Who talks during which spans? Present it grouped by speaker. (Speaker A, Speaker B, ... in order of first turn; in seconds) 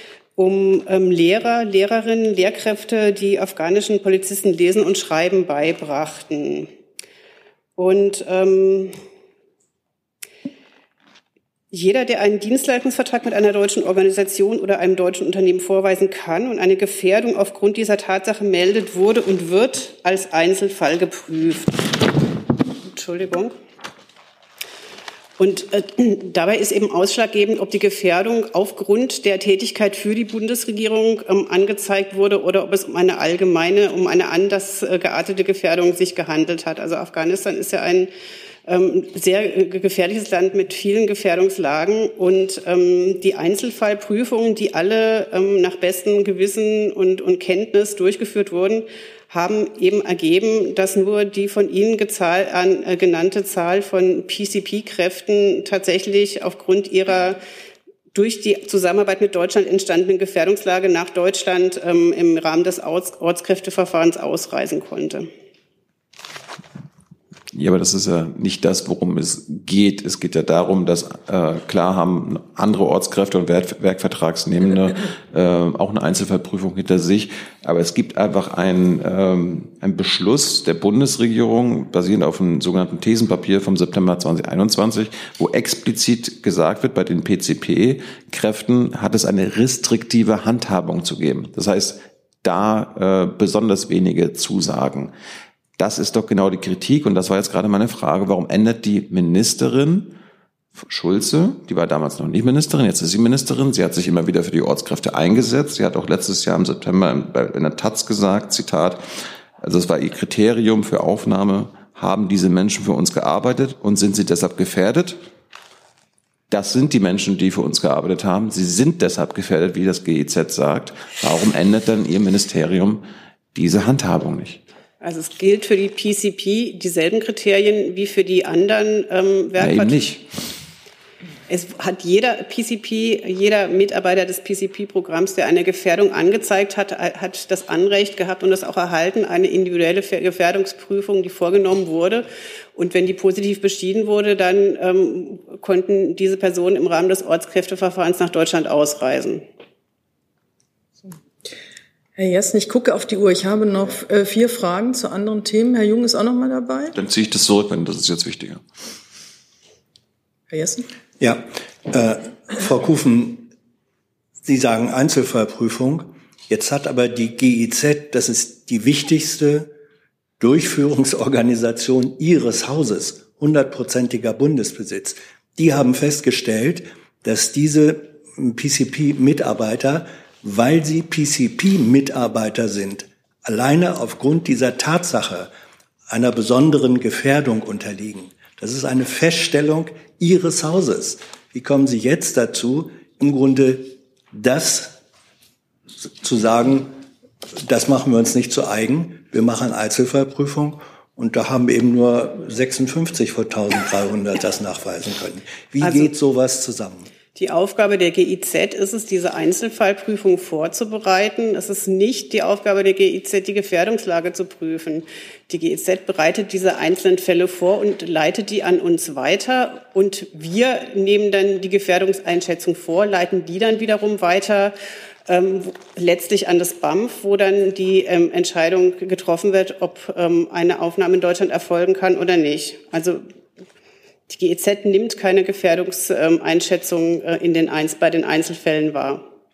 Speaker A: 0.4-6.7, 7.8-8.9, 11.7-22.1, 22.8-23.6, 25.4-38.1, 38.7-57.4, 58.1-65.3, 125.0-130.1, 131.5-149.4, 205.8-206.1, 207.3-233.2, 234.3-239.2
Speaker B: 67.5-95.1, 95.8-100.2, 100.8-109.0, 109.6-115.2, 116.5-124.6, 129.6-130.2, 156.9-158.6
Speaker C: 152.2-156.9, 160.5-160.9
Speaker D: 161.2-163.5, 164.4-169.7, 170.4-185.5, 186.1-195.0, 196.0-197.0, 197.6-207.1